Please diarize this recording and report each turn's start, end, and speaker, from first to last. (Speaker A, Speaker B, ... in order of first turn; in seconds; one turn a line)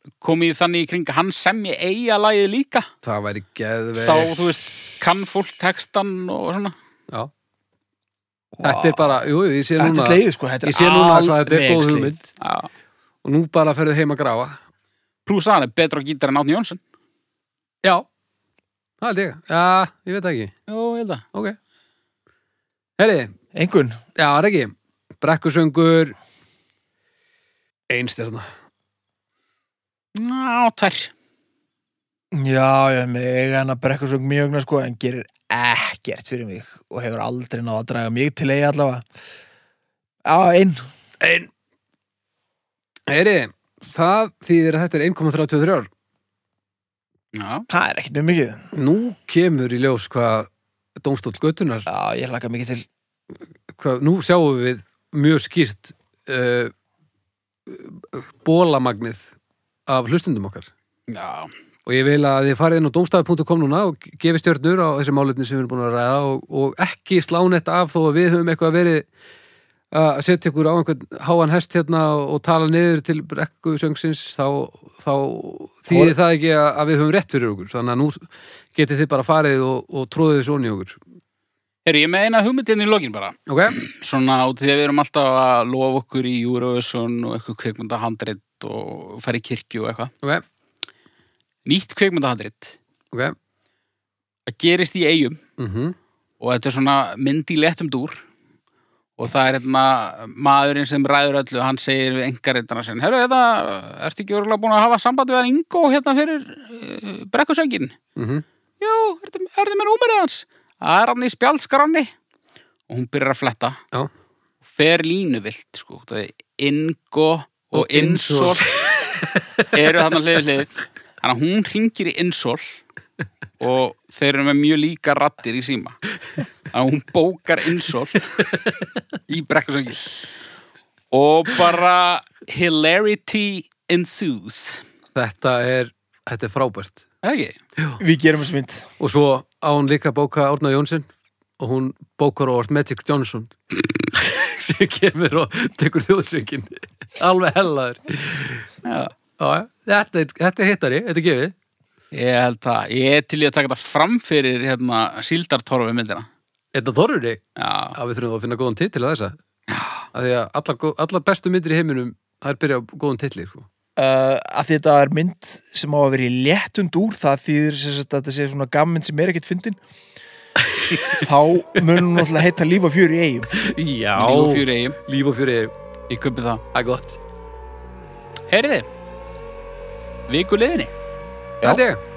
Speaker A: 0.2-2.9
Speaker B: 3.0-4.5
Speaker A: 4.0-6.7
Speaker C: 8.6-9.2
Speaker B: 8.6-12.3
Speaker C: 9.8-12.1
Speaker A: 12.4-12.7
Speaker B: 13.2-14.6
Speaker A: 15.2-16.8
Speaker B: 19.0-20.5
Speaker A: 20.7-21.2
Speaker B: 23.0-23.3
Speaker C: 23.5-24.0
Speaker B: 24.1-26.1
Speaker B: 27.9-28.4
Speaker A: 30.1-31.1
Speaker C: 32.3-39.0
Speaker C: 40.2-40.8
Speaker B: 41.2-41.5
Speaker B: 43.1-45.9
Speaker A: 47.3-47.7
Speaker C: 47.7-48.6
Speaker B: 48.7-51.9
Speaker C: 51.9-52.9
Speaker B: 53.7-56.7
Speaker B: 57.7-59.3
Speaker B: 59.9-60.7
Speaker A: 61.1-61.5
Speaker B: 61.9-69.0
Speaker B: 69.9-81.0
Speaker C: 75.9-76.2
Speaker A: 81.8-90.1
Speaker B: 83.5-83.8
Speaker A: 91.7-92.8
Speaker A: 94.5-95.4
Speaker B: 95.6-96.0
Speaker A: 96.4-98.2
Speaker A: 99.2-108.0
Speaker B: 108.2-108.4
Speaker A: 108.8-112.1
Speaker A: 112.9-113.8
Speaker A: 114.7-118.7
Speaker B: 117.7-119.6
Speaker A: 119.7-122.7
Speaker A: 123.6-126.0
Speaker A: 126.7-128.3
Speaker A: 129.3-130.2
Speaker A: 131.1-134.8
Speaker B: 135.1-137.0
Speaker A: 137.2-137.6
Speaker C: 138.0-138.9
Speaker B: 139.0-141.1
Speaker B: 141.6-148.7
Speaker A: 148.8-149.1
Speaker B: 149.4-151.5
Speaker A: 152.1-156.3
Speaker B: 156.7-157.4
Speaker A: 157.6-158.0
Speaker B: 157.9-159.3
Speaker A: 159.7-160.1
Speaker B: 160.1-163.7
Speaker C: 163.9-169.8
Speaker B: 170.7-171.2
Speaker C: 171.1-173.5
Speaker B: 171.9-172.4
Speaker B: 173.5-175.7
Speaker A: 174.2-175.0
Speaker A: 176.1-176.6
Speaker B: 176.7-177.2
Speaker A: 178.5-178.9
Speaker A: 180.3-180.9
Speaker B: 181.6-182.0